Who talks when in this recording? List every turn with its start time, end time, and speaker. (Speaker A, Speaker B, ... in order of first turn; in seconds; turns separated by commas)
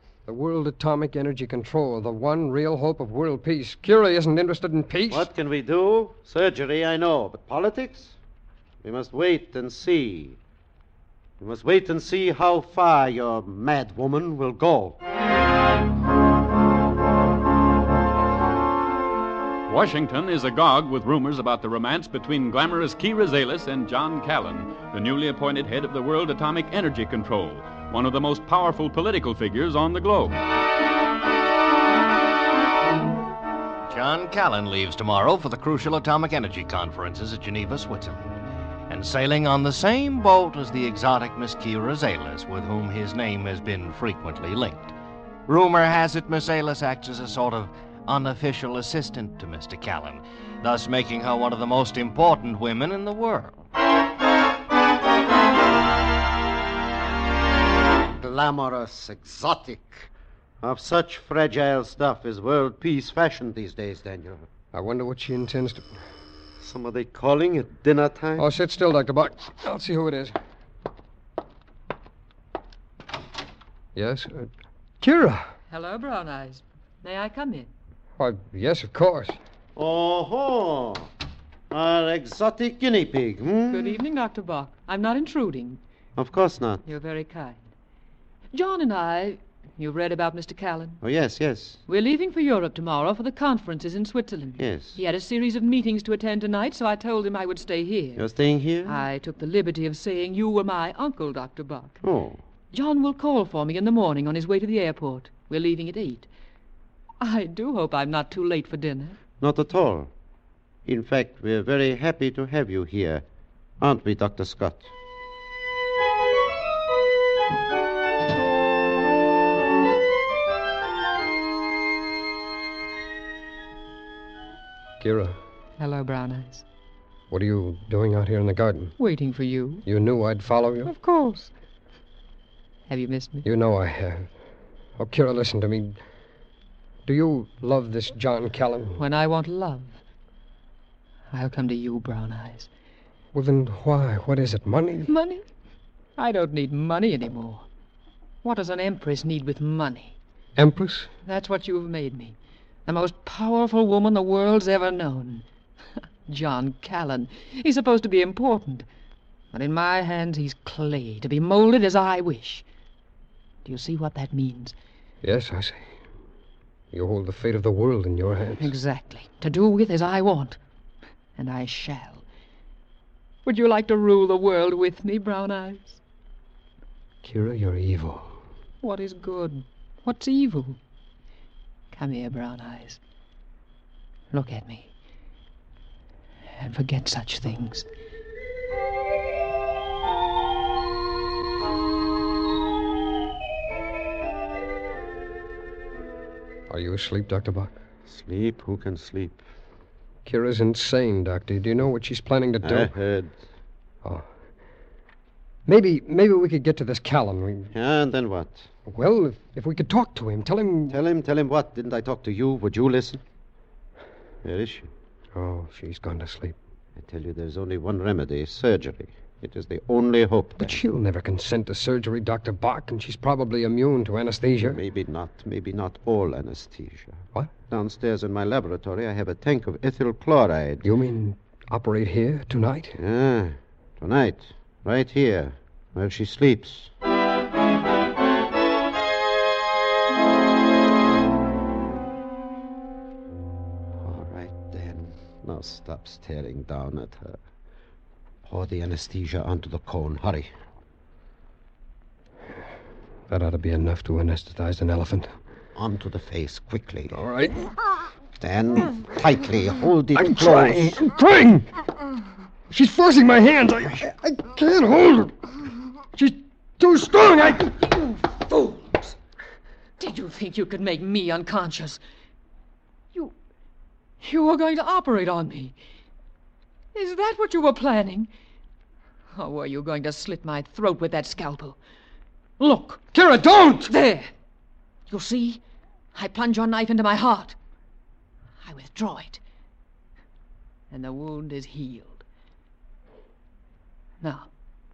Speaker A: 0.3-5.3, Speaker B: 5.1-8.2, Speaker B: 8.8-10.4, Speaker B: 11.4-15.0, Speaker C: 19.7-30.4, Speaker D: 33.9-38.2, Speaker D: 38.9-44.9, Speaker D: 45.5-53.5, Speaker B: 58.2-60.1, Speaker B: 60.6-64.5, Speaker A: 64.7-66.0, Speaker B: 66.6-68.5, Speaker A: 68.4-70.4, Speaker A: 74.0-74.5, Speaker A: 75.0-75.5, Speaker E: 75.7-77.7, Speaker A: 78.2-79.4, Speaker B: 79.8-81.1, Speaker B: 81.7-84.0, Speaker E: 83.7-85.8, Speaker B: 86.2-86.8, Speaker E: 86.8-87.6, Speaker E: 88.5-91.0, Speaker B: 91.0-91.8, Speaker E: 91.9-98.2, Speaker B: 94.6-95.0, Speaker B: 98.2-99.0, Speaker E: 98.9-102.0, Speaker B: 102.0-102.4, Speaker E: 102.7-106.3, Speaker E: 107.2-109.2, Speaker B: 109.4-110.1, Speaker B: 110.9-113.2, Speaker B: 113.8-114.9, Speaker A: 125.0-125.4, Speaker E: 125.8-126.6, Speaker A: 127.3-128.9, Speaker E: 129.0-129.8, Speaker A: 129.9-130.9, Speaker E: 130.9-131.5, Speaker E: 132.9-133.4, Speaker A: 133.4-134.3, Speaker A: 135.0-136.0, Speaker A: 137.1-139.0, Speaker E: 139.0-140.0, Speaker E: 141.3-142.7, Speaker A: 143.3-145.1, Speaker E: 145.1-145.4, Speaker E: 146.2-147.7, Speaker E: 148.4-150.2, Speaker A: 150.6-151.1, Speaker E: 151.3-155.4, Speaker E: 156.3-158.9, Speaker E: 159.5-162.7, Speaker E: 163.7-164.8, Speaker A: 165.2-165.9, Speaker A: 166.9-168.7, Speaker E: 168.6-170.6, Speaker E: 171.4-172.2, Speaker E: 173.4-176.0, Speaker A: 177.2-178.4, Speaker E: 178.8-180.8, Speaker E: 181.9-183.0, Speaker E: 184.3-184.9, Speaker E: 186.6-187.9, Speaker A: 196.7-197.7, Speaker B: 198.1-199.4, Speaker A: 200.2-202.9, Speaker B: 202.6-203.4, Speaker A: 205.7-207.7, Speaker B: 207.7-208.7, Speaker A: 208.9-211.0, Speaker B: 210.9-213.2, Speaker B: 214.4-214.9, Speaker A: 215.3-216.6, Speaker B: 217.0-220.8, Speaker A: 220.6-224.8, Speaker B: 224.6-230.8, Speaker A: 230.8-233.0, Speaker B: 233.0-236.9, Speaker B: 244.0-247.4, Speaker B: 248.5-250.5, Speaker A: 253.3-255.3, Speaker B: 255.8-257.2, Speaker A: 257.1-257.7, Speaker B: 258.4-261.0, Speaker A: 260.1-261.7, Speaker A: 262.7-265.5, Speaker A: 266.1-267.8, Speaker E: 267.8-269.1, Speaker E: 270.0-272.0, Speaker E: 274.2-275.8, Speaker E: 276.9-278.3, Speaker E: 279.4-281.8, Speaker E: 282.6-283.1, Speaker A: 283.1-283.9, Speaker E: 283.9-284.3, Speaker E: 285.1-285.6, Speaker E: 286.1-287.6, Speaker E: 288.6-289.4, Speaker E: 290.9-292.2, Speaker E: 294.2-294.5